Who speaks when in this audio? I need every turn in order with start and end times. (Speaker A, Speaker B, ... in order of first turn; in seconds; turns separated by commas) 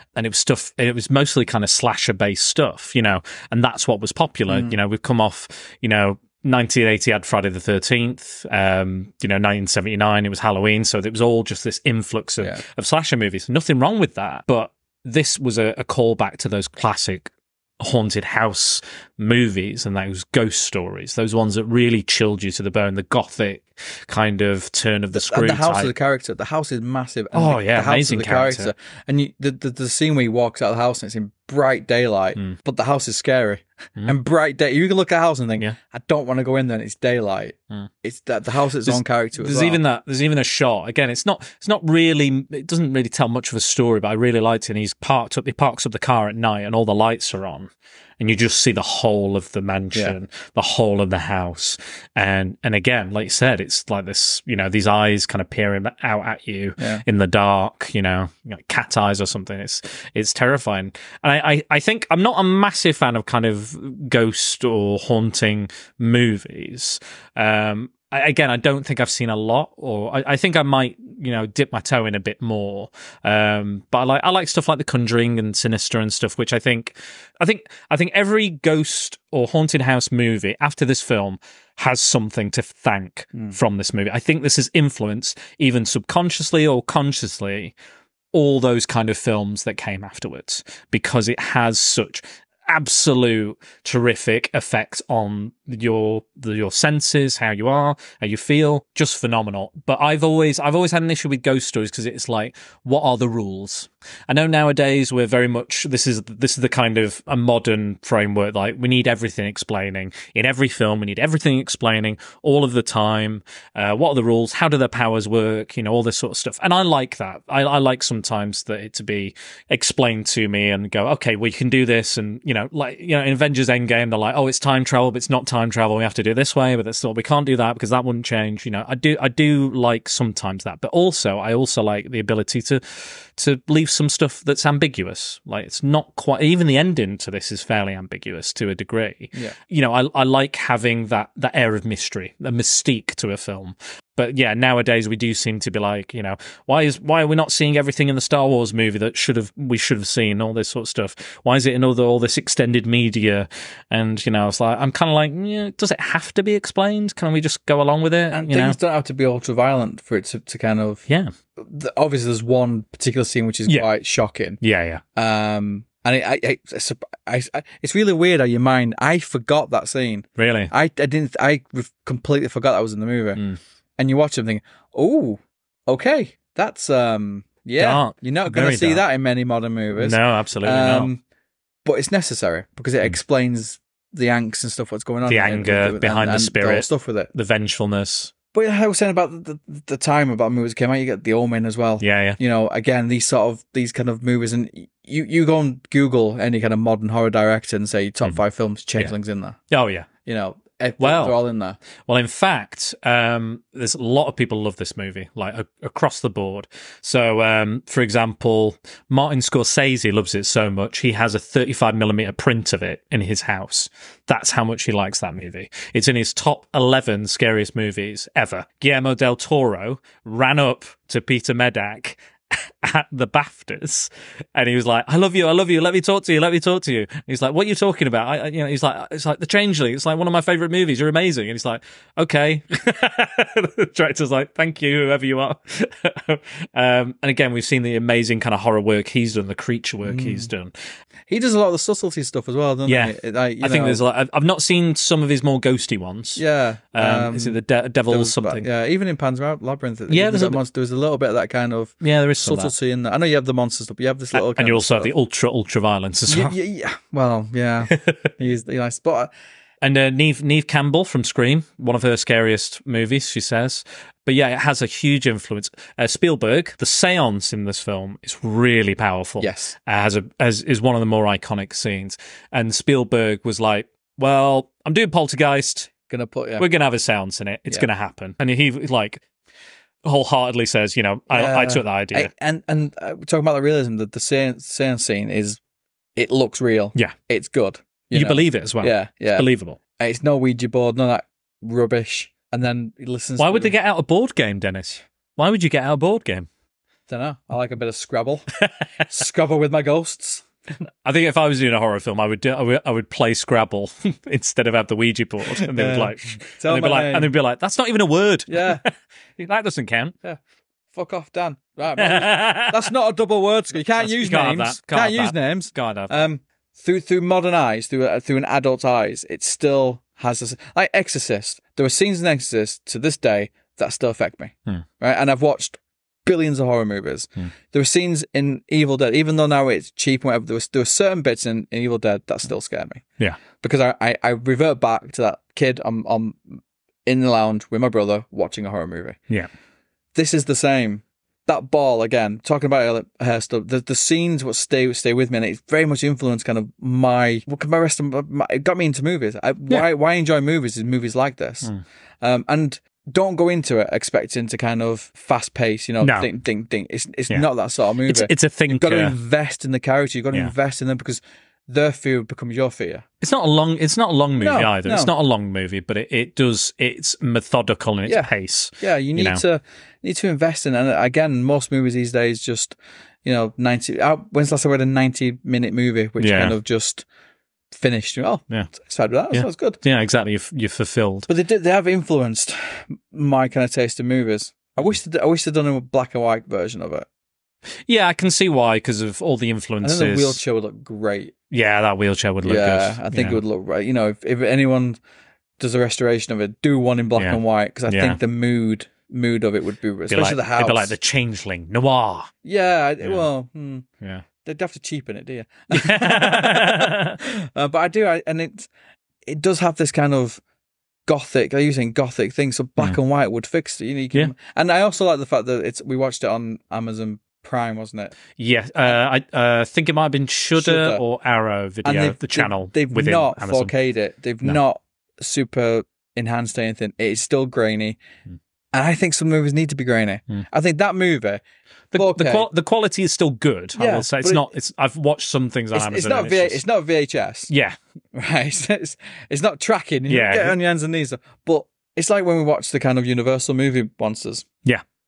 Speaker A: 0.1-25.9, Speaker B: 4.5-4.8, Speaker B: 25.1-39.8, Speaker A: 27.3-28.7, Speaker A: 38.9-87.7, Speaker A: 88.3-158.8, Speaker B: 158.3-161.1, Speaker B: 161.6-164.6, Speaker A: 164.6-165.0, Speaker B: 165.2-173.4, Speaker A: 170.4-170.7, Speaker B: 174.0-181.2, Speaker A: 177.8-179.0, Speaker A: 179.9-181.1, Speaker B: 181.8-187.3, Speaker A: 185.3-188.3, Speaker B: 188.5-199.6, Speaker A: 192.0-192.4, Speaker A: 199.7-200.1, Speaker B: 200.2-201.8, Speaker A: 201.0-201.4, Speaker A: 202.1-240.8, Speaker B: 240.0-240.5, Speaker B: 241.3-244.0, Speaker A: 242.9-246.4, Speaker B: 246.4-247.6, Speaker A: 246.9-248.7, Speaker B: 248.1-255.1, Speaker A: 250.1-250.6, Speaker A: 252.0-252.7, Speaker A: 254.3-256.6, Speaker B: 256.3-259.3, Speaker A: 257.9-258.3, Speaker A: 259.8-275.9, Speaker B: 269.4-269.7, Speaker B: 276.1-276.7, Speaker A: 276.6-279.2, Speaker A: 280.0-282.3, Speaker B: 281.3-285.6, Speaker B: 286.2-293.7, Speaker A: 288.1-289.8, Speaker A: 293.4-296.5, Speaker B: 297.1-298.5, Speaker B: 299.0-300.4, Speaker A: 301.0-310.1, Speaker B: 305.5-307.3, Speaker B: 308.5-308.8, Speaker B: 310.9-333.0, Speaker A: 311.9-312.9, Speaker A: 314.0-316.2, Speaker B: 333.6-339.2, Speaker B: 340.1-351.7, Speaker B: 352.2-363.1, Speaker A: 356.0-356.3, Speaker A: 358.1-359.2, Speaker A: 363.2-369.4, Speaker B: 364.4-365.1, Speaker B: 368.1-377.1, Speaker A: 376.2-376.6, Speaker B: 377.7-379.8, Speaker A: 379.3-381.3, Speaker B: 381.3-387.1, Speaker A: 387.9-390.4, Speaker B: 389.8-391.3, Speaker A: 391.5-393.4, Speaker B: 392.4-395.0, Speaker B: 395.6-400.9, Speaker A: 397.2-398.2, Speaker A: 400.1-402.3, Speaker B: 402.4-403.9, Speaker B: 404.4-408.7, Speaker A: 405.7-407.2, Speaker B: 409.3-410.4, Speaker B: 411.1-418.1, Speaker A: 418.4-423.7, Speaker B: 420.6-421.0, Speaker B: 421.9-428.0, Speaker B: 428.7-431.4, Speaker A: 431.9-436.6, Speaker B: 431.9-432.5, Speaker B: 433.8-434.5, Speaker B: 435.7-437.5, Speaker A: 437.5-437.8, Speaker B: 438.1-444.4, Speaker A: 440.1-440.6